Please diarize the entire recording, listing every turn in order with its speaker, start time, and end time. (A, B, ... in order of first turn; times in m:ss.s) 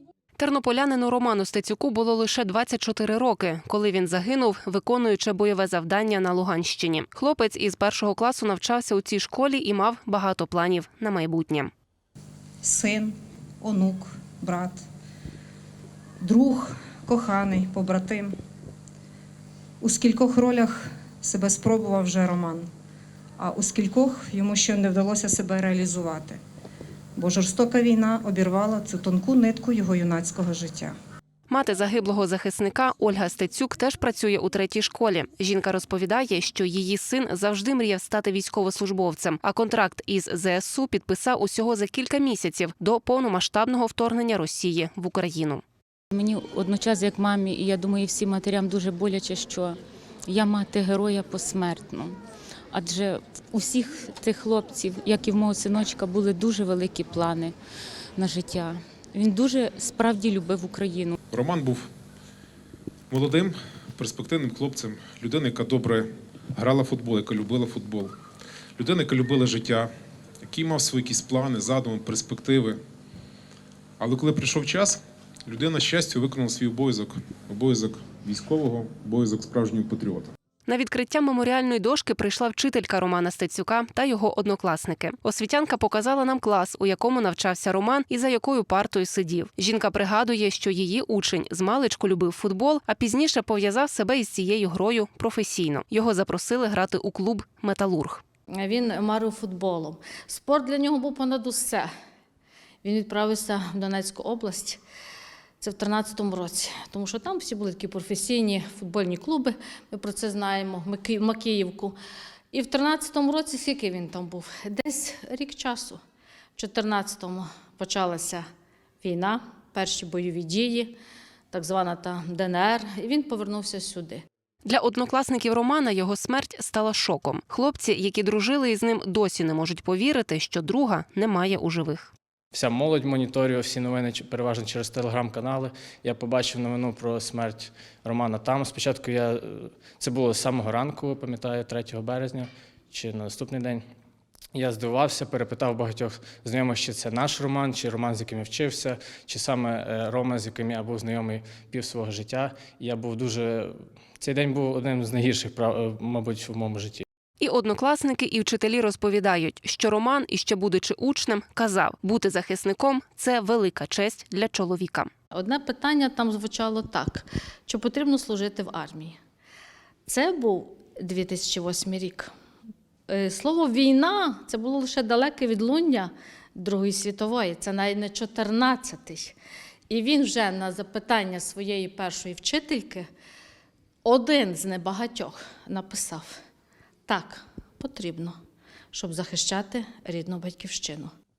0:00.4-0:11.7 A
0:12.6-0:14.8 B
0:16.2-0:18.3 B
0:19.8-0:22.7 B
0:23.4-0:26.4 B
0:27.2-0:30.9 B
0:31.5-0:45.6 A
0:46.1-0:52.2 C
0:52.7-0:57.5 C
0:58.2-1:01.2 C
1:01.3-1:01.9 D
1:03.1-1:08.1 D
1:08.8-1:09.9 D
1:10.4-1:12.8 D
1:14.0-1:20.3 D
1:20.6-1:38.2 A
1:38.5-1:41.9 E
1:42.8-1:44.8 E
1:45.6-1:51.9 E
1:52.5-1:56.0 E
1:56.6-1:58.4 E
1:59.0-2:00.9 E
2:01.5-2:04.2 E
2:04.6-2:12.1 A
2:12.5-2:23.8 F
2:24.5-2:37.0 F
2:37.4-2:45.1 A
2:45.3-2:49.2 E
2:50.1-2:52.3 E
2:53.1-2:59.3 E
2:59.9-3:03.0 E
3:04.0-3:06.3 E
3:07.1-3:08.3 E
3:08.9-3:11.1 E